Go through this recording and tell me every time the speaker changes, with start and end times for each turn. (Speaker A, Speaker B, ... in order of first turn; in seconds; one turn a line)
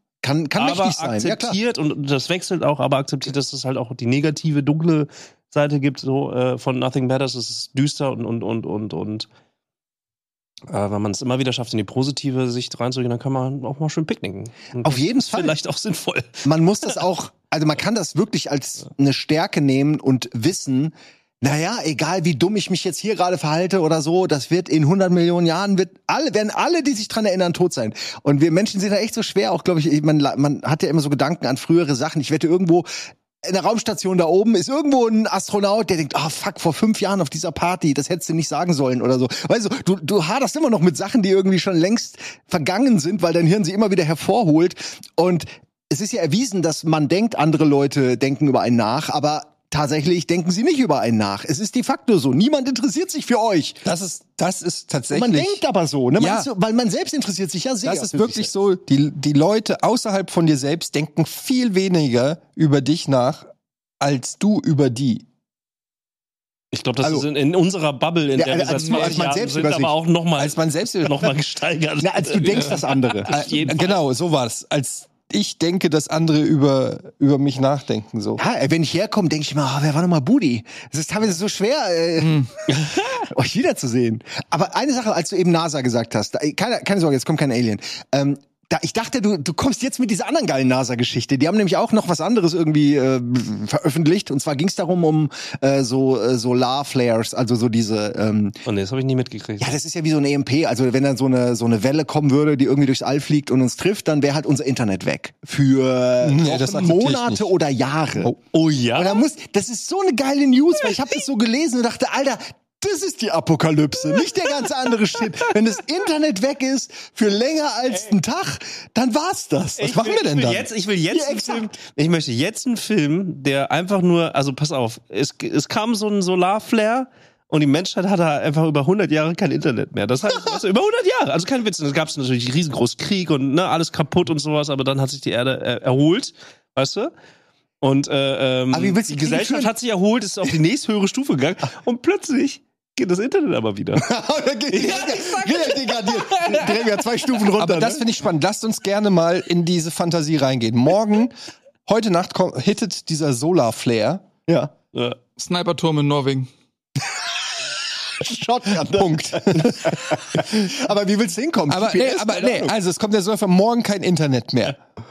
Speaker A: 0.2-1.6
Speaker B: 0.6-9.3
Speaker B: 10.7-16.4
Speaker A: 14.8-15.6
Speaker A: 16.4-32.9
Speaker A: 33.4-53.8
Speaker C: 53.8-55.6
Speaker A: 55.1-58.5
Speaker C: 56.2-56.5
Speaker C: 57.8-63.5
Speaker C: 64.0-65.2
Speaker B: 66.7-74.0
Speaker A: 68.4-69.9
Speaker D: 68.8-69.3
Speaker C: 70.4-71.3
Speaker A: 72.0-73.3
Speaker D: 72.4-72.8
Speaker C: 73.3-78.4
Speaker A: 78.4-98.6
Speaker D: 82.2-82.5
Speaker B: 82.7-83.2
Speaker B: 98.7-99.7
Speaker A: 99.6-108.3
Speaker C: 106.2-107.5
Speaker B: 108.5-109.2
Speaker A: 108.9-119.9
Speaker B: 119.8-137.1
Speaker C: 119.8-120.7
Speaker A: 121.1-121.7
Speaker B: 137.8-144.1
Speaker A: 138.7-139.7
Speaker A: 143.9-148.0
Speaker B: 144.7-147.1
Speaker C: 147.6-151.3
Speaker C: 151.8-154.2
Speaker D: 155.4-156.5
Speaker A: 157.1-162.7
Speaker C: 158.8-160.7
Speaker C: 161.7-164.8